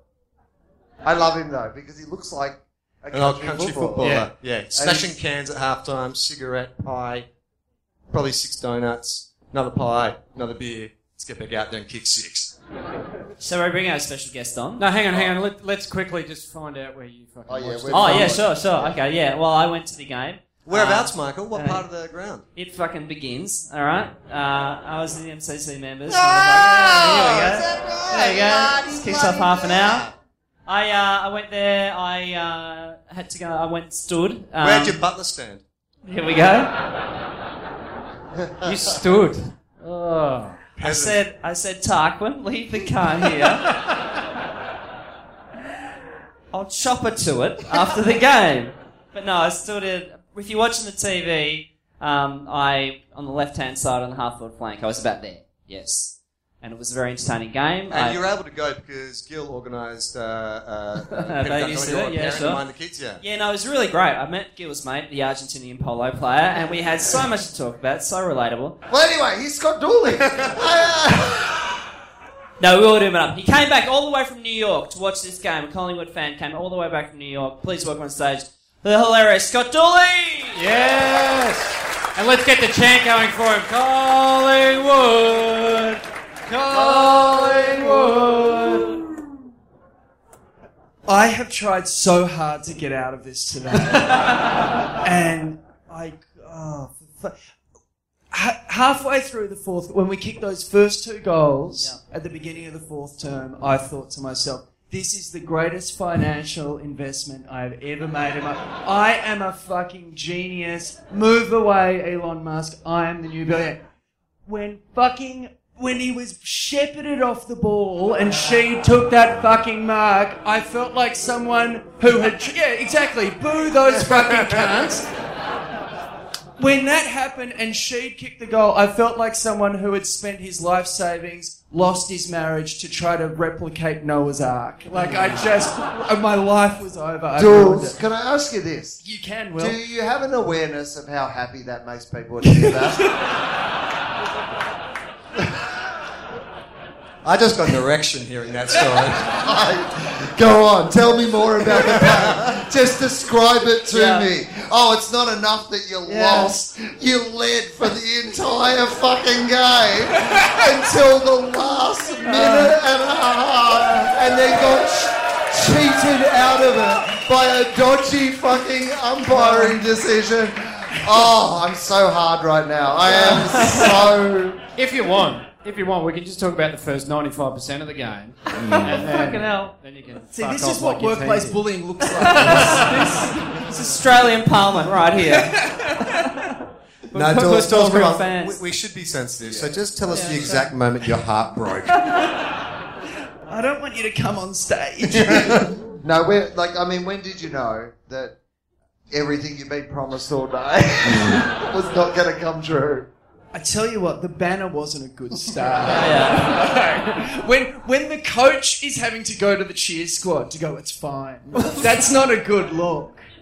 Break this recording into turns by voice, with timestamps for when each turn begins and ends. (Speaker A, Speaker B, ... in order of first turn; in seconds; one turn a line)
Speaker A: 1.0-4.2
Speaker B: 3.1-7.3
Speaker C: 4.0-4.3
Speaker A: 4.7-5.1
Speaker B: 8.1-12.5
Speaker D: 13.4-14.9
Speaker C: 14.8-18.4
Speaker A: 17.5-19.0
Speaker D: 17.9-21.8
Speaker B: 20.6-22.4
Speaker D: 22.6-30.1
Speaker B: 26.1-30.1
Speaker D: 30.7-35.0
Speaker B: 34.6-35.6
Speaker D: 36.1-36.8
Speaker C: 38.6-40.6
Speaker B: 40.8-41.2
Speaker D: 40.8-43.8
Speaker D: 46.5-58.2
Speaker B: 57.9-63.2
Speaker D: 61.1-62.6
Speaker D: 63.2-68.8
Speaker A: 68.9-71.8
Speaker D: 72.6-80.6
Speaker C: 80.5-89.0
Speaker E: 87.1-87.6
Speaker E: 91.1-97.4
Speaker E: 98.3-113.8
Speaker E: 114.5-125.1
Speaker B: 124.0-124.7
Speaker E: 126.6-138.0
Speaker A: 137.4-139.0
Speaker E: 139.0-139.8
Speaker A: 139.6-143.1
Speaker E: 142.5-143.3
Speaker B: 147.2-149.4
Speaker A: 149.2-174.6
Speaker B: 151.8-152.5
Speaker D: 153.9-154.3
Speaker D: 156.1-156.5
Speaker D: 162.3-162.8
Speaker D: 173.2-173.9
Speaker C: 174.8-181.6
Speaker D: 178.5-179.7
Speaker B: 178.6-179.1
Speaker E: 180.3-184.0
Speaker D: 182.0-186.5
Speaker C: 182.4-182.9
Speaker E: 185.3-186.2
Speaker D: 187.1-188.6
Speaker B: 187.2-192.0
Speaker A: 189.4-190.3
Speaker D: 190.1-190.7
Speaker E: 190.2-190.6
Speaker D: 192.0-192.3
Speaker E: 193.5-195.7
Speaker B: 195.1-195.8
Speaker A: 196.0-198.3
Speaker A: 199.1-203.1
Speaker B: 201.1-201.5
Speaker E: 203.5-213.2
Speaker D: 205.8-206.7